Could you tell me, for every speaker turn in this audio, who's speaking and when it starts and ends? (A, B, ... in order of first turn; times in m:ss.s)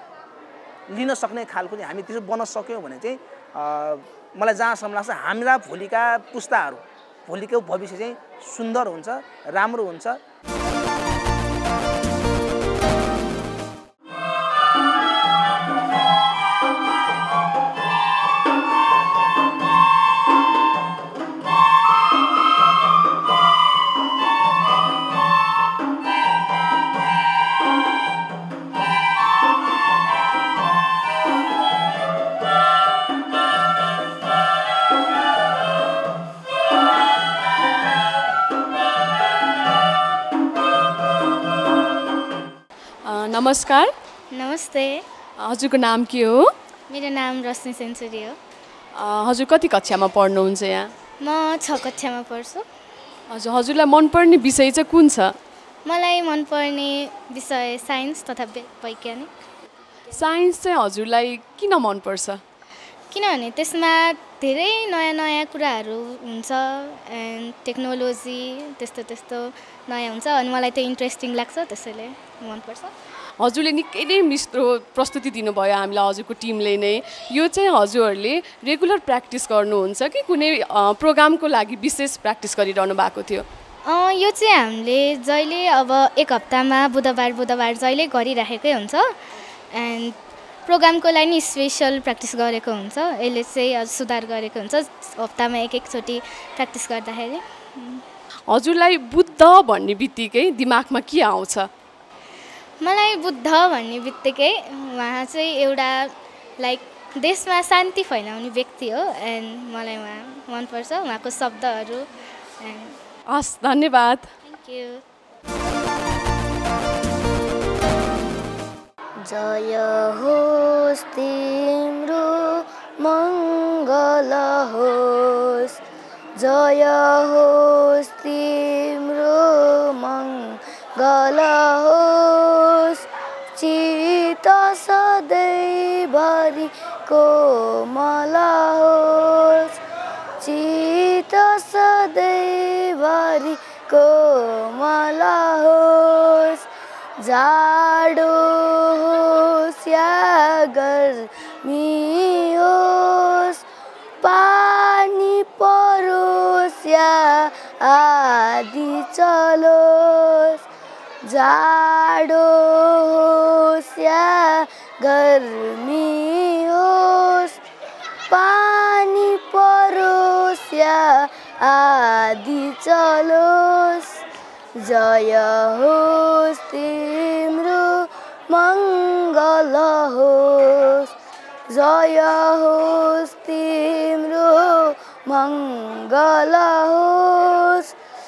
0:00.9-0:10.2 A
0:43.0-0:43.9 B
0:44.3-0:45.0 C
0:45.4-0:46.5 B
0:46.9-0:48.4 C
0:49.0-0:50.9 B
0:51.2-0:52.7 C
0:53.3-0:55.4 B
0:55.8-0:59.3 C
1:00.1-1:02.4 B
1:03.1-1:12.9 C
1:13.4-1:23.5 B
1:23.8-1:29.2 C
1:29.7-1:38.0 C
1:38.5-1:41.7 B
1:42.8-1:52.1 C
1:52.6-1:53.0 C
1:53.3-1:54.3 B
1:54.4-1:55.0 C
1:59.2-2:05.8 D
2:06.4-2:13.0 D
2:13.6-2:19.8 D
2:20.4-2:26.6 D
2:27.2-2:33.6 D
2:34.2-2:40.6 D
2:41.2-2:47.6 D
2:48.3-2:54.2 D
2:54.8-3:01.1 D
3:01.7-3:07.9 D